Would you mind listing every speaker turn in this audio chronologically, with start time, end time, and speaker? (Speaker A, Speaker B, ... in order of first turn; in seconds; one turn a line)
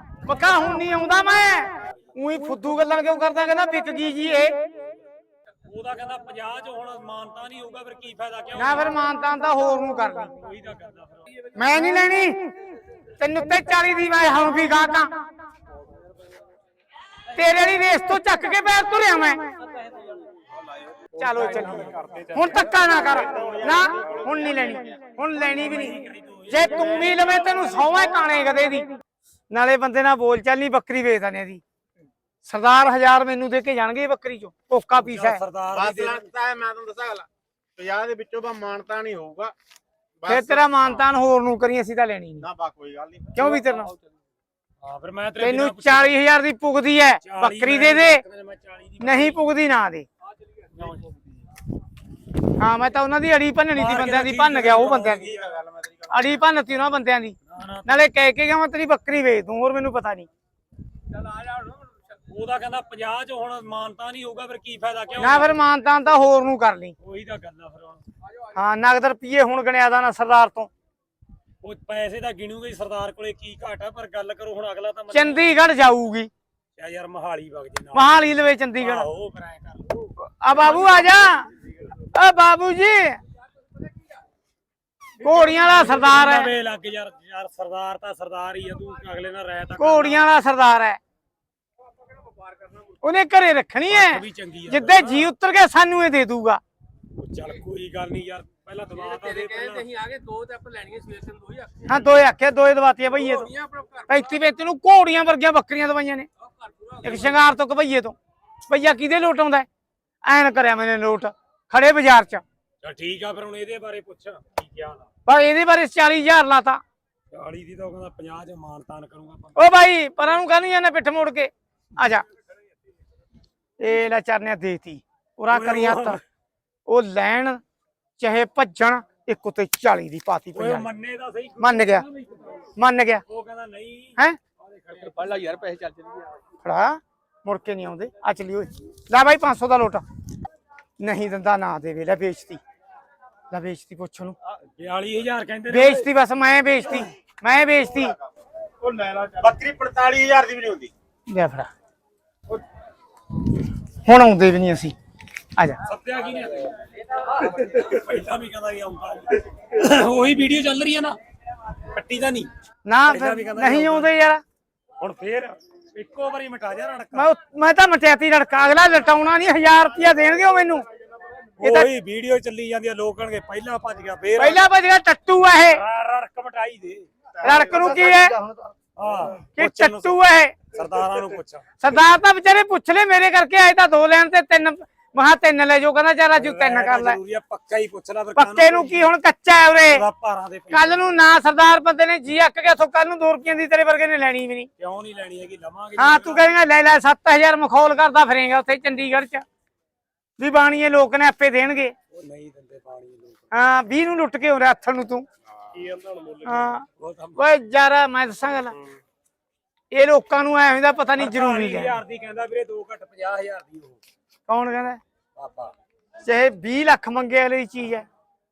Speaker A: 0.2-4.6
Speaker B: 5.7-8.9
Speaker A: 8.6-10.3
Speaker B: 10.3-11.5
Speaker A: 11.6-12.5
Speaker A: 13.2-15.2
Speaker A: 17.3-19.4
Speaker A: 21.2-28.9
Speaker C: 21.2-22.4
Speaker B: 21.7-22.1
Speaker D: 23.1-25.1
Speaker B: 25.4-27.3
Speaker A: 29.5-31.6
Speaker A: 32.4-35.4
Speaker B: 34.9-36.2
Speaker D: 35.7-39.5
Speaker D: 40.2-41.0
Speaker A: 40.3-42.5
Speaker D: 42.4-43.4
Speaker A: 43.4-43.9
Speaker C: 43.6-44.0
Speaker B: 44.8-46.2
Speaker A: 45.4-48.2
Speaker B: 47.2-49.4
Speaker A: 49.0-50.1
Speaker A: 52.6-55.3
Speaker B: 53.7-55.4
Speaker D: 55.2-56.3
Speaker A: 56.1-60.3
Speaker B: 57.5-58.0
Speaker B: 61.2-65.6
Speaker A: 65.2-66.9
Speaker B: 67.0-68.0
Speaker A: 68.5-70.7
Speaker B: 71.6-75.5
Speaker A: 75.1-76.3
Speaker B: 76.8-78.2
Speaker A: 77.9-79.1
Speaker B: 78.8-81.2
Speaker A: 80.2-81.5
Speaker A: 82.0-83.2
Speaker A: 85.2-86.5
Speaker B: 85.2-90.3
Speaker A: 89.8-91.0
Speaker A: 93.0-96.6
Speaker B: 93.9-95.3
Speaker B: 97.2-99.9
Speaker C: 99.2-101.8
Speaker A: 101.8-103.5
Speaker C: 103.3-104.1
Speaker A: 104.1-106.3
Speaker A: 107.0-109.7
Speaker A: 110.2-112.4
Speaker B: 112.8-115.1
Speaker A: 115.3-116.8
Speaker B: 117.3-119.7
Speaker A: 119.6-122.2
Speaker A: 123.8-126.2
Speaker B: 125.5-126.2
Speaker A: 126.9-127.6
Speaker A: 128.2-130.9
Speaker B: 130.5-132.6
Speaker A: 131.6-132.1
Speaker A: 132.8-133.2
Speaker B: 133.3-134.2
Speaker B: 134.7-135.4
Speaker C: 135.0-136.4
Speaker A: 136.6-140.0
Speaker A: 141.0-142.6
Speaker A: 143.5-144.4
Speaker B: 144.8-146.1
Speaker A: 145.7-148.2
Speaker D: 148.8-150.9
Speaker A: 151.3-151.7
Speaker A: 154.0-154.9
Speaker B: 155.8-161.2
Speaker B: 161.9-162.5
Speaker A: 162.9-164.4
Speaker B: 163.1-164.1
Speaker B: 165.0-167.3
Speaker A: 167.1-170.9
Speaker B: 171.6-174.7
Speaker A: 171.6-171.9
Speaker A: 174.4-175.8
Speaker B: 175.7-177.1
Speaker D: 177.4-178.5
Speaker A: 177.4-178.4
Speaker B: 179.0-181.7
Speaker A: 179.6-180.6
Speaker A: 181.8-187.2
Speaker B: 186.3-189.1
Speaker A: 188.4-190.1
Speaker B: 189.9-191.2
Speaker A: 190.7-194.7
Speaker B: 194.8-196.6
Speaker A: 196.0-199.4
Speaker A: 200.4-201.9
Speaker B: 202.1-203.5
Speaker A: 203.5-205.3
Speaker C: 205.8-206.6
Speaker A: 206.4-208.8
Speaker B: 207.0-207.4
Speaker A: 209.9-212.0
Speaker B: 211.2-214.0
Speaker A: 214.5-215.0
Speaker B: 215.4-215.7
Speaker A: 216.2-218.1